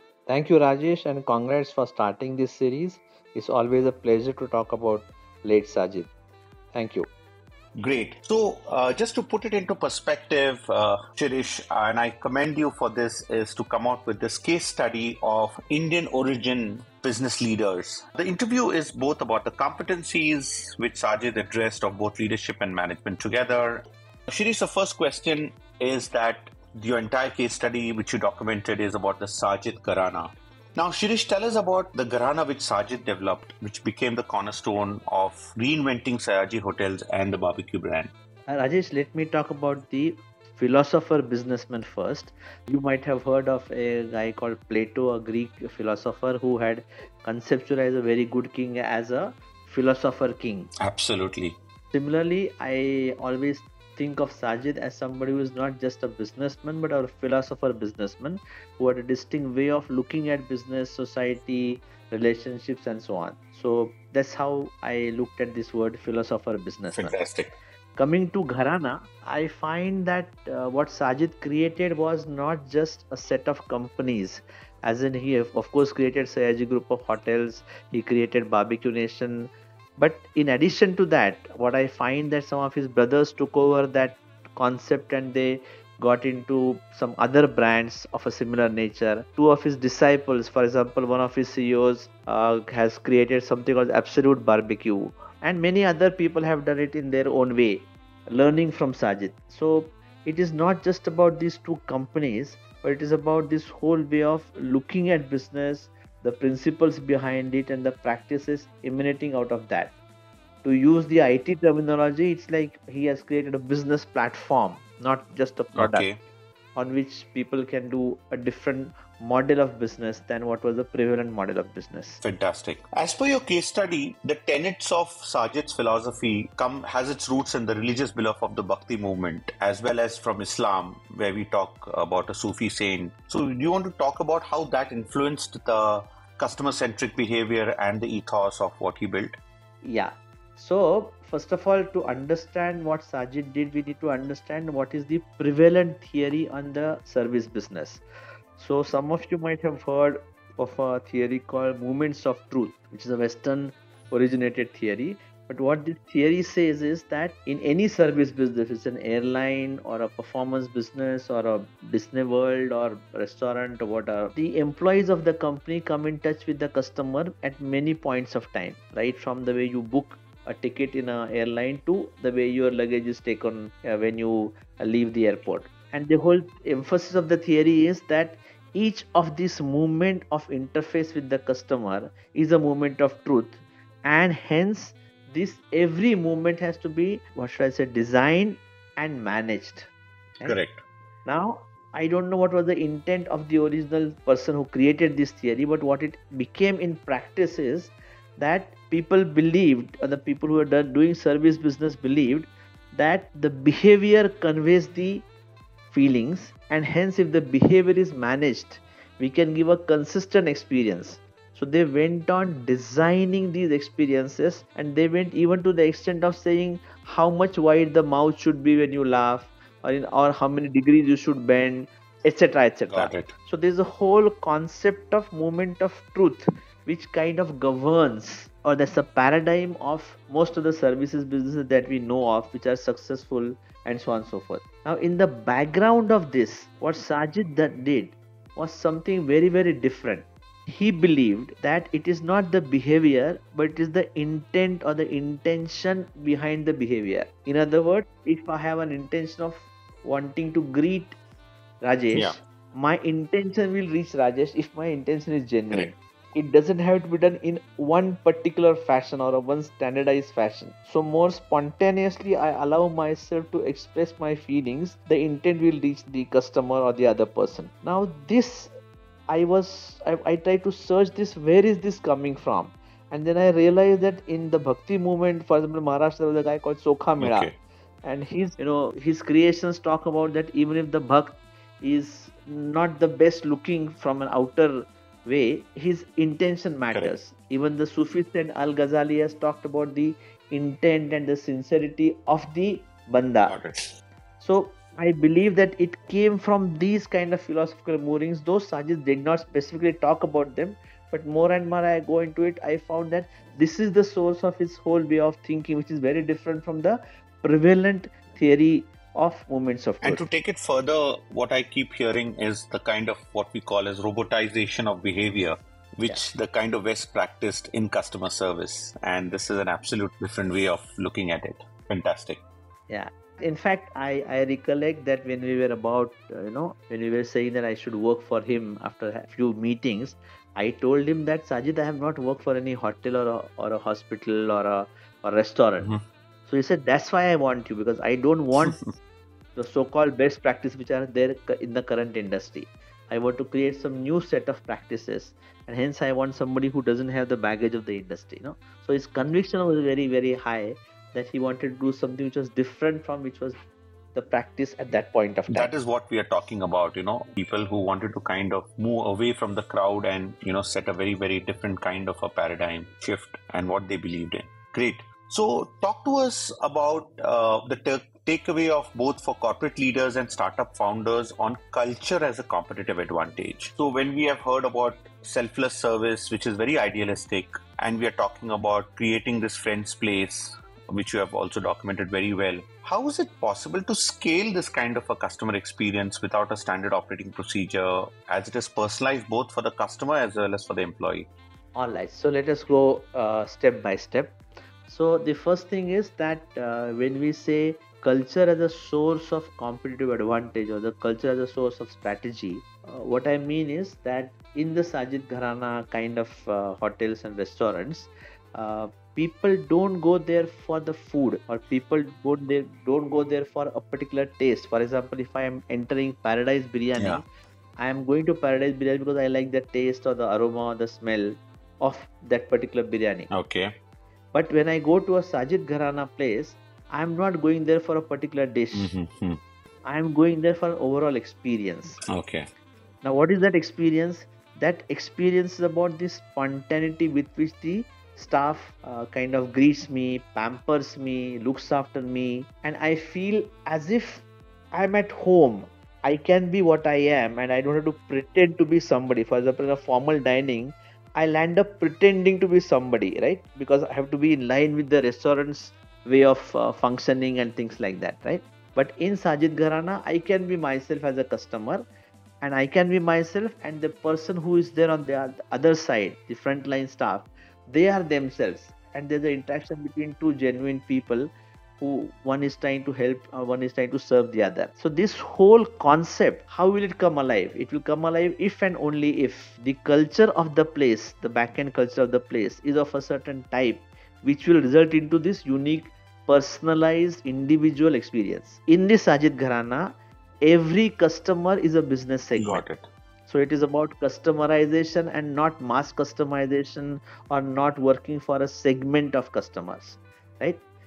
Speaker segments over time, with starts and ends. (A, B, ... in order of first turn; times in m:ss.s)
0:00.3-0:06.1 A
0:06.7-0:07.1 A
0:07.8-0:38.1 B
0:38.5-0:50.7 A
0:50.8-0:51.6 B
0:51.9-1:07.2 A
1:07.0-1:07.6 B
1:08.0-1:49.9 A
1:50.6-1:56.1 A
1:55.8-1:56.2 B
1:56.8-2:02.2 A
2:02.2-2:19.4 B
2:19.8-2:28.0 A
2:28.6-3:09.9 A
3:10.4-3:10.8 B
3:11.3-3:25.3 A
3:25.9-4:11.2 A
3:42.9-3:43.3 B
4:11.8-4:28.7 A
4:12.1-4:12.4 B
4:29.3-4:37.5 A
4:37.2-4:37.5 B
4:38.0-4:53.6 A
4:53.5-4:53.9 B
4:54.4-5:10.2 A
5:10.0-5:22.4 B
5:22.9-5:35.9 A
5:36.5-5:38.8 A
5:38.6-5:38.9 B
5:39.6-5:53.6 A
5:54.1-5:55.7 A
5:55.5-6:31.3 B
6:31.8-6:57.2 A
6:57.0-6:57.2 B
6:57.8-7:03.3 A
7:03.3-7:03.7 B
7:04.3-7:09.0 A
7:08.8-7:09.4 B
7:09.8-7:12.0 A
7:12.1-7:12.5 B
7:13.0-7:41.8 A
7:42.4-8:12.6 A
8:12.4-8:12.9 B
8:13.3-8:20.6 A